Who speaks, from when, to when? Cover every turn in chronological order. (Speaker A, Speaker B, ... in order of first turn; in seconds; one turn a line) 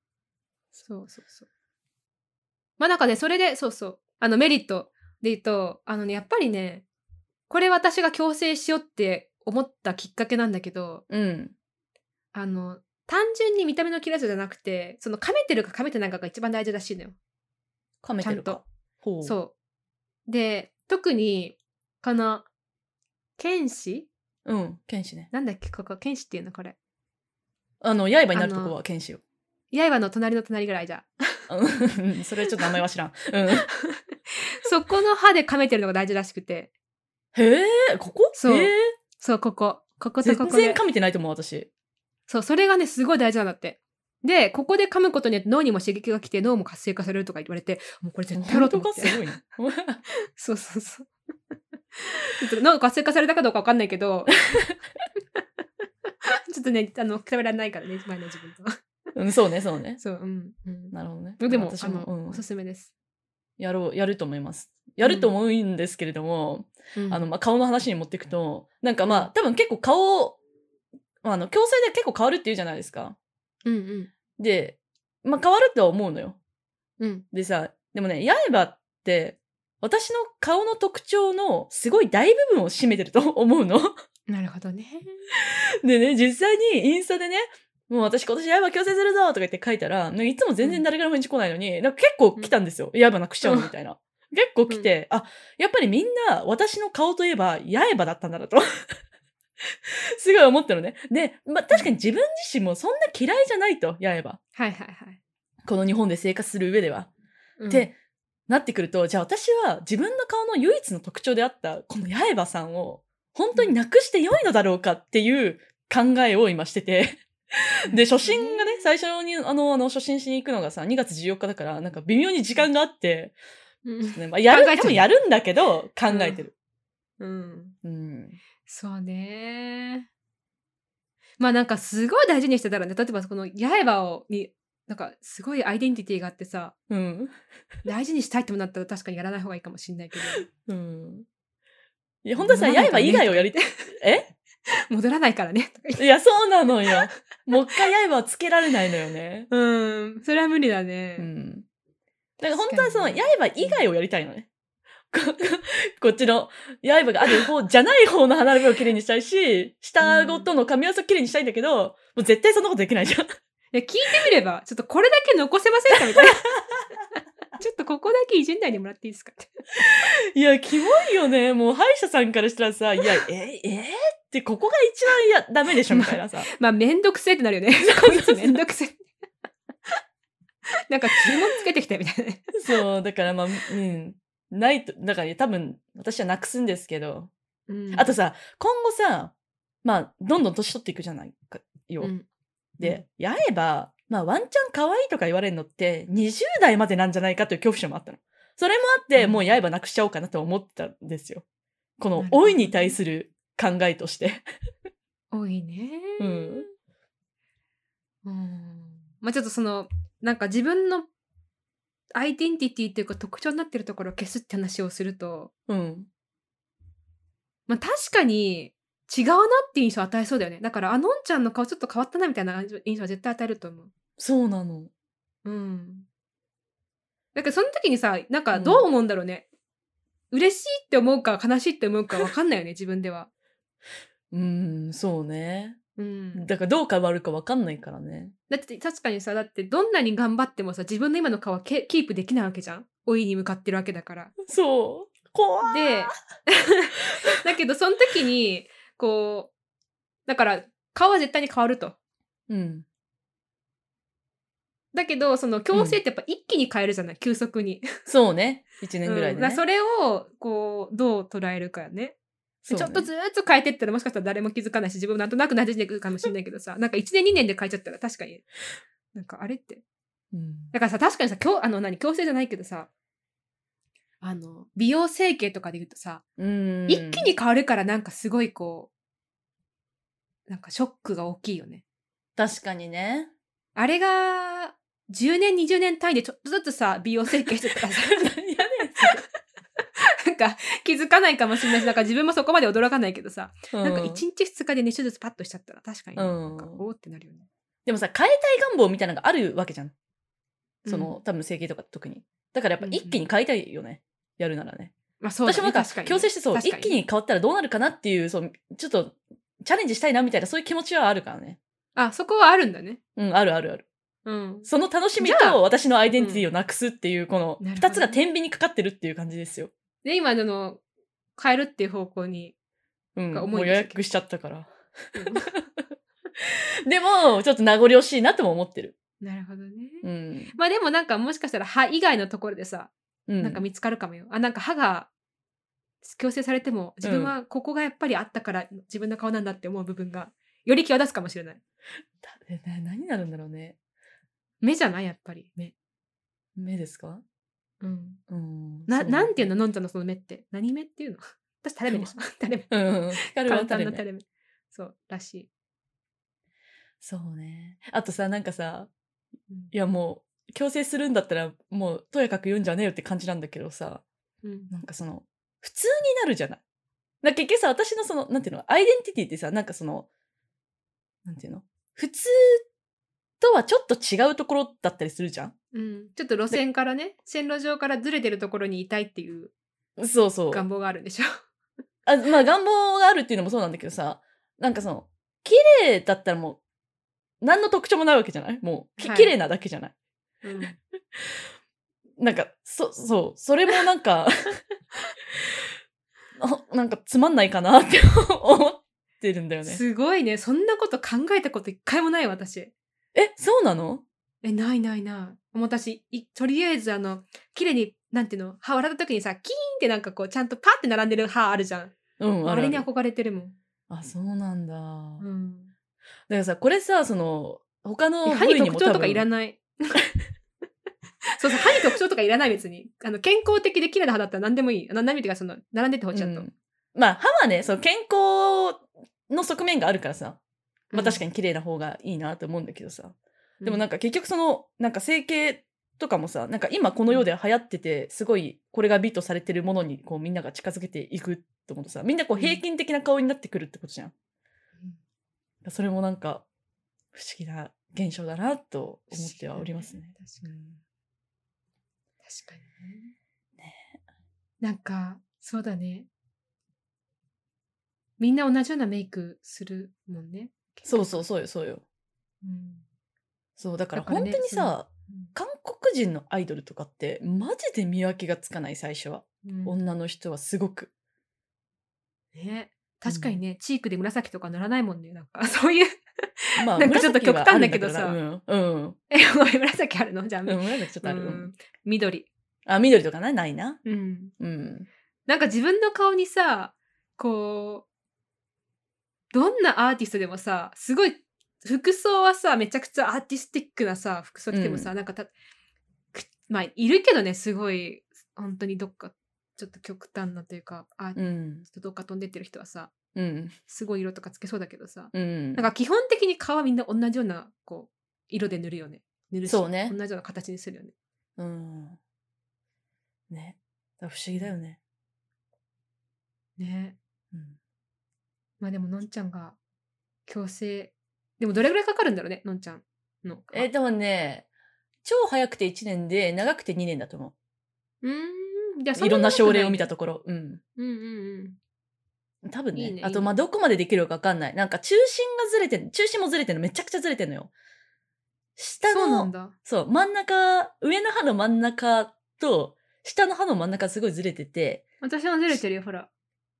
Speaker A: 0.8-1.4
Speaker A: 2.8-6.8
Speaker A: 7.5-11.0
Speaker B: 11.1-11.5
Speaker A: 12.3-17.1
Speaker B: 18.0-19.3
Speaker A: 18.2-18.6
Speaker A: 19.2-19.5
Speaker A: 20.3-22.5
Speaker A: 23.4-24.1
Speaker B: 24.4-25.3
Speaker A: 25.3-26.8
Speaker B: 27.8-29.2
Speaker A: 28.3-28.8
Speaker A: 29.7-31.5
Speaker B: 31.5-33.7
Speaker A: 33.7-36.7
Speaker B: 37.3-38.9
Speaker A: 38.3-40.8
Speaker B: 40.2-41.7
Speaker A: 42.3-49.2
Speaker B: 48.3-50.0
Speaker A: 50.3-51.1
Speaker A: 51.9-54.4
Speaker A: 56.2-58.7
Speaker B: 59.1-60.0
Speaker A: 60.0-62.9
Speaker B: 60.9-62.4
Speaker B: 63.6-70.4
Speaker A: 65.0-65.3
Speaker A: 66.9-67.2
Speaker A: 69.0-69.3
Speaker B: 71.2-73.2
Speaker A: 73.6-74.1
Speaker B: 74.4-76.4
Speaker A: 77.0-77.2
Speaker B: 77.3-83.9
Speaker A: 84.3-85.2
Speaker B: 85.4-98.8
Speaker A: 93.4-93.7
Speaker B: 99.9-104.4
Speaker A: 104.5-105.2
Speaker B: 105.7-107.1
Speaker A: 107.6-107.9
Speaker B: 107.7-107.9
Speaker B: 108.5-123.3
Speaker A: 117.9-118.8
Speaker A: 123.8-125.0
Speaker B: 124.1-126.5
Speaker A: 126.1-126.4
Speaker A: 127.2-127.8
Speaker B: 127.8-128.4
Speaker A: 128.7-130.1
Speaker A: 131.4-136.7
Speaker B: 136.9-137.3
Speaker A: 137.8-140.5
Speaker B: 140.3-141.2
Speaker B: 142.2-144.3
Speaker A: 142.4-143.9
Speaker A: 144.7-146.0
Speaker B: 146.0-149.5
Speaker A: 149.5-151.3
Speaker B: 151.2-151.7
Speaker B: 152.4-154.5
Speaker A: 152.4-153.8
Speaker B: 155.1-163.3
Speaker A: 160.0-160.5
Speaker A: 163.7-166.4
Speaker B: 166.1-166.8
Speaker A: 167.6-169.6
Speaker B: 169.8-176.5
Speaker A: 175.9-179.1
Speaker B: 177.8-178.6
Speaker A: 180.9-182.5
Speaker B: 182.5-187.3
Speaker A: 187.7-188.1
Speaker B: 187.9-192.1
Speaker A: 192.0-192.2
Speaker B: 192.8-201.4
Speaker A: 199.1-199.6
Speaker B: 202.0-204.4
Speaker A: 202.2-203.0
Speaker A: 205.3-206.7
Speaker B: 206.2-206.7
Speaker A: 208.2-211.1
Speaker A: 212.1-215.5
Speaker B: 215.7-216.1
Speaker A: 217.7-223.9
Speaker B: 224.2-224.9
Speaker A: 225.4-226.1
Speaker A: 227.3-229.4
Speaker B: 228.5-228.8
Speaker A: 230.3-233.3
Speaker B: 234.3-235.8
Speaker A: 236.0-236.4
Speaker B: 236.3-238.3
Speaker A: 238.5-244.3
Speaker B: 244.4-246.1
Speaker A: 245.7-249.5
Speaker A: 250.3-251.9
Speaker B: 252.5-252.8
Speaker A: 254.9-257.9
Speaker B: 255.7-256.0
Speaker B: 258.1-259.6
Speaker A: 259.1-268.4
Speaker B: 262.7-263.1
Speaker A: 269.1-269.8
Speaker B: 270.3-270.7
Speaker A: 270.7-272.9
Speaker A: 274.2-276.2
Speaker B: 276.4-277.3
Speaker A: 276.9-278.9
Speaker A: 280.5-281.8
Speaker B: 282.4-283.3
Speaker A: 283.8-288.4
Speaker B: 288.0-289.2
Speaker A: 289.0-289.2
Speaker A: 290.0-297.4
Speaker B: 293.7-294.2
Speaker B: 296.1-296.8
Speaker B: 297.9-299.9
Speaker A: 300.8-301.1
Speaker B: 300.9-304.9
Speaker A: 302.8-303.2
Speaker A: 305.2-307.0
Speaker B: 305.4-311.6
Speaker A: 311.9-313.0
Speaker B: 313.1-313.9
Speaker A: 314.2-314.7
Speaker B: 314.6-319.7
Speaker A: 315.2-315.6
Speaker A: 316.2-316.4
Speaker A: 317.6-318.2
Speaker A: 320.0-320.8
Speaker A: 321.4-322.5
Speaker B: 323.1-325.9
Speaker A: 323.3-324.0
Speaker A: 325.1-325.4
Speaker B: 326.4-328.9
Speaker A: 329.2-335.1
Speaker B: 330.0-330.5
Speaker B: 333.3-333.6
Speaker A: 336.0-341.6
Speaker B: 337.0-337.3
Speaker B: 342.2-343.8
Speaker A: 344.6-345.7
Speaker B: 346.6-347.2
Speaker A: 347.8-348.2
Speaker B: 348.3-349.5
Speaker A: 348.9-352.7
Speaker B: 352.7-354.0
Speaker A: 353.2-355.5
Speaker B: 357.0-358.9
Speaker B: 359.7-364.0
Speaker A: 364.4-364.7
Speaker B: 364.7-366.6
Speaker B: 367.2-370.1
Speaker B: 371.2-372.6
Speaker B: 373.4-375.5
Speaker A: 375.7-379.5
Speaker B: 380.0-380.6
Speaker A: 380.5-381.4
Speaker B: 382.1-386.6
Speaker B: 387.4-389.9
Speaker A: 389.0-389.3
Speaker A: 390.4-390.8
Speaker B: 392.2-394.5
Speaker B: 396.4-399.8
Speaker A: 399.6-402.7
Speaker B: 403.1-404.0
Speaker A: 404.4-413.5
Speaker B: 412.2-412.9
Speaker B: 413.9-415.2
Speaker A: 415.2-415.7
Speaker B: 416.3-419.2
Speaker A: 418.2-420.0
Speaker A: 421.4-426.5
Speaker B: 426.1-430.4
Speaker A: 430.9-431.2
Speaker B: 430.9-444.1
Speaker A: 442.3-442.6
Speaker B: 445.6-446.4
Speaker B: 447.1-450.8
Speaker A: 449.1-450.5
Speaker A: 452.2-453.1
Speaker B: 453.6-453.9
Speaker A: 454.6-456.1
Speaker A: 458.2-461.2
Speaker B: 460.9-461.8
Speaker A: 462.4-462.8
Speaker B: 463.6-470.9
Speaker A: 463.9-465.3
Speaker A: 469.4-469.8
Speaker A: 472.3-478.2
Speaker B: 473.1-473.4
Speaker B: 476.6-479.0
Speaker A: 479.1-482.3
Speaker B: 480.4-481.5
Speaker B: 482.6-483.8
Speaker A: 483.8-484.3
Speaker B: 484.4-484.9
Speaker A: 485.3-487.9
Speaker A: 489.3-495.3
Speaker B: 494.5-494.9
Speaker A: 496.1-502.9
Speaker B: 501.1-501.6
Speaker B: 503.1-503.5
Speaker A: 503.7-510.9
Speaker B: 505.1-505.7
Speaker B: 509.4-509.9
Speaker B: 511.4-512.0
Speaker B: 513.3-514.8
Speaker A: 516.6-517.0
Speaker A: 518.6-519.6
Speaker A: 520.3-523.7
Speaker B: 523.5-524.5
Speaker B: 525.0-527.3
Speaker A: 528.0-529.9
Speaker B: 529.0-530.6
Speaker A: 530.8-531.6
Speaker B: 532.4-537.5
Speaker A: 532.7-533.3
Speaker B: 538.6-544.8
Speaker A: 538.9-539.5
Speaker A: 545.0-546.1